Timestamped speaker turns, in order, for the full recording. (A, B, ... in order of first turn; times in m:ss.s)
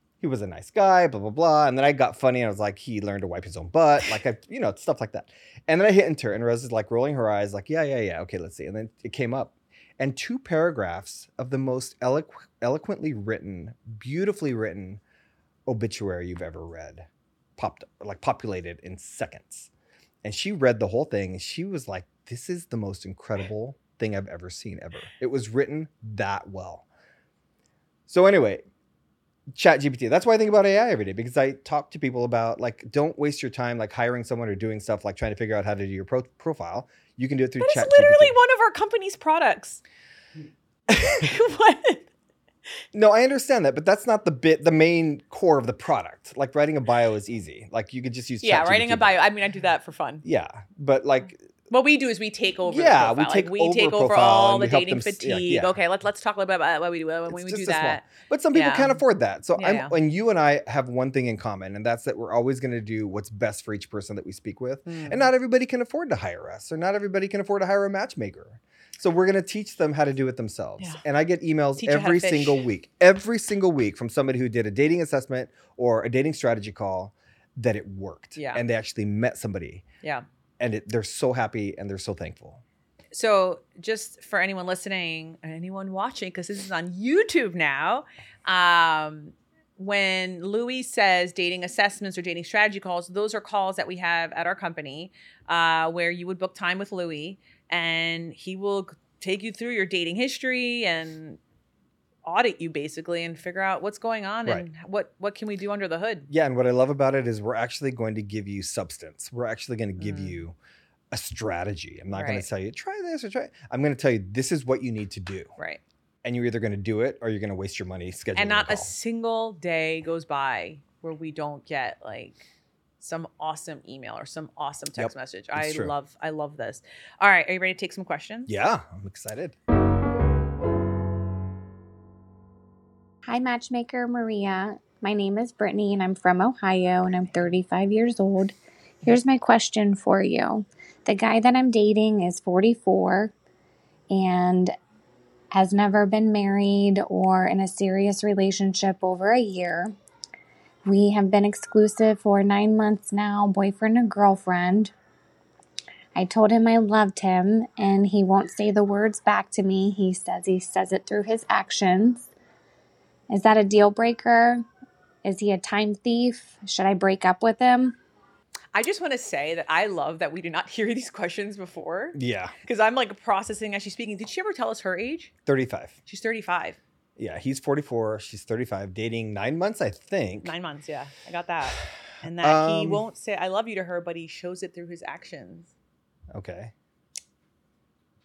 0:00.2-0:15.0 A
0:15.6-0:19.7 A
0:20.2-0:26.8 A
0:28.1-0:28.6 A
0:29.5-0:38.3 A
0:37.6-0:39.8 B
0:40.9-0:42.1 B
0:42.9-0:49.2 A
0:48.4-0:50.2 B
0:50.2-0:51.4 A
0:51.7-0:59.0 B
0:52.7-0:55.8 A
0:57.3-1:19.8 A
0:59.5-1:00.0 B
1:04.8-1:05.3 B
1:11.8-1:12.6 B
1:18.4-1:18.6 B
1:20.6-1:22.6 A
1:23.1-1:41.4 B
1:42.2-1:46.3 B
1:46.3-1:50.6 A
1:50.0-1:50.4 B
1:51.1-1:55.5 A
1:52.1-1:52.5 B
1:56.2-1:58.9 A
1:58.3-2:02.4 B
2:03.0-2:08.5 B
2:05.0-2:05.9 A
2:08.5-2:09.5 A
2:13.2-2:23.3 C
2:24.1-2:24.7 C
2:25.5-2:29.9 C
2:30.8-2:34.9 C
2:36.1-2:42.3 C
2:43.3-2:44.6 C
2:45.2-2:48.0 C
2:48.7-2:55.3 B
2:52.1-2:52.5 A
2:55.4-2:55.9 A
2:56.1-2:56.8 B
2:57.2-3:00.5 A
3:00.4-3:05.7 B
3:02.4-3:03.0 A
3:06.3-3:06.7 A